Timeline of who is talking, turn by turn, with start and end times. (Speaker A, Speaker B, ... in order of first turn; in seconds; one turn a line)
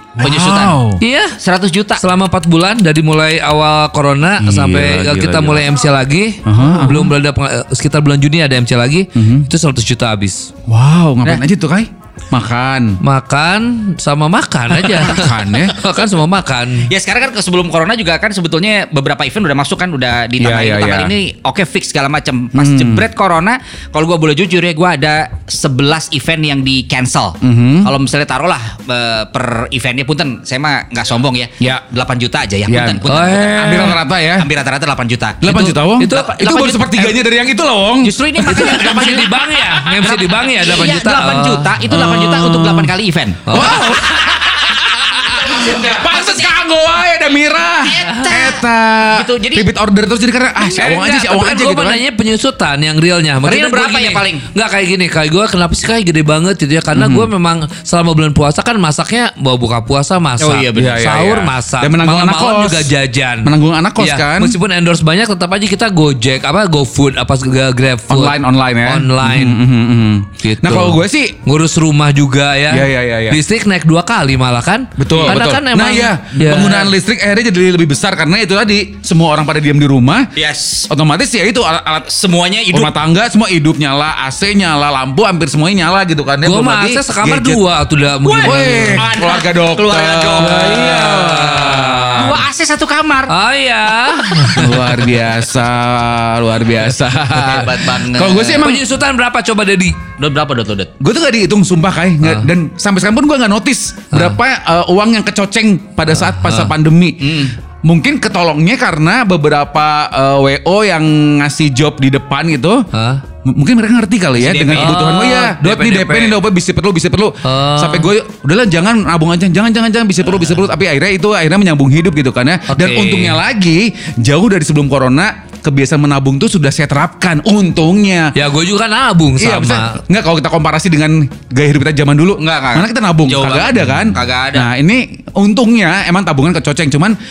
Speaker A: 0.2-1.0
Speaker B: 0.2-0.8
Speaker C: 1.0-1.4
Speaker B: 1.4-2.0
Speaker C: 2.0-10.5
Speaker A: 4.4-5.7
Speaker A: 6.4-7.1
Speaker A: 9.1-9.5
Speaker A: 10.7-13.0
Speaker C: 13.0-16.9
Speaker A: 14.9-15.8
Speaker B: 16.8-35.5
Speaker A: 20.4-21.1
Speaker A: 22.5-23.1
Speaker A: 27.4-27.9
Speaker A: 32.7-34.5
Speaker C: 33.1-34.0
Speaker A: 35.4-39.1
Speaker C: 35.4-37.0
Speaker B: 36.1-37.0
Speaker B: 38.0-43.8
Speaker C: 38.4-41.7
Speaker A: 41.9-42.9
Speaker C: 43.5-44.0
Speaker A: 43.5-52.0
Speaker B: 45.4-46.5
Speaker B: 47.8-49.7
Speaker C: 50.8-69.6
Speaker B: 53.4-54.5
Speaker A: 56.9-57.3
Speaker B: 60.4-61.0
Speaker A: 60.7-62.9
Speaker A: 63.4-64.6
Speaker A: 68.1-71.4
Speaker C: 70.4-76.9
Speaker A: 72.7-73.4
Speaker A: 75.0-80.3
Speaker B: 75.1-75.4
Speaker B: 76.4-76.8
Speaker B: 80.4-80.9
Speaker A: 80.9-82.1
Speaker B: 82.1-82.9
Speaker A: 82.7-87.6
Speaker C: 86.4-89.1
Speaker B: 88.2-91.1
Speaker A: 88.4-92.4
Speaker C: 90.4-92.3
Speaker B: 92.1-93.3
Speaker C: 93.3-95.1
Speaker A: 94.5-98.8
Speaker B: 97.2-98.7
Speaker C: 98.6-100.0
Speaker B: 100.2-100.9
Speaker A: 101.0-112.9
Speaker C: 102.2-102.5
Speaker C: 104.1-104.4
Speaker C: 106.2-106.7
Speaker B: 107.2-107.5
Speaker C: 112.9-113.2
Speaker A: 113.4-128.3
Speaker B: 114.4-115.0
Speaker C: 114.7-116.4
Speaker C: 117.4-118.1
Speaker C: 122.7-123.4
Speaker C: 128.3-129.9
Speaker A: 129.4-137.2
Speaker B: 132.4-134.7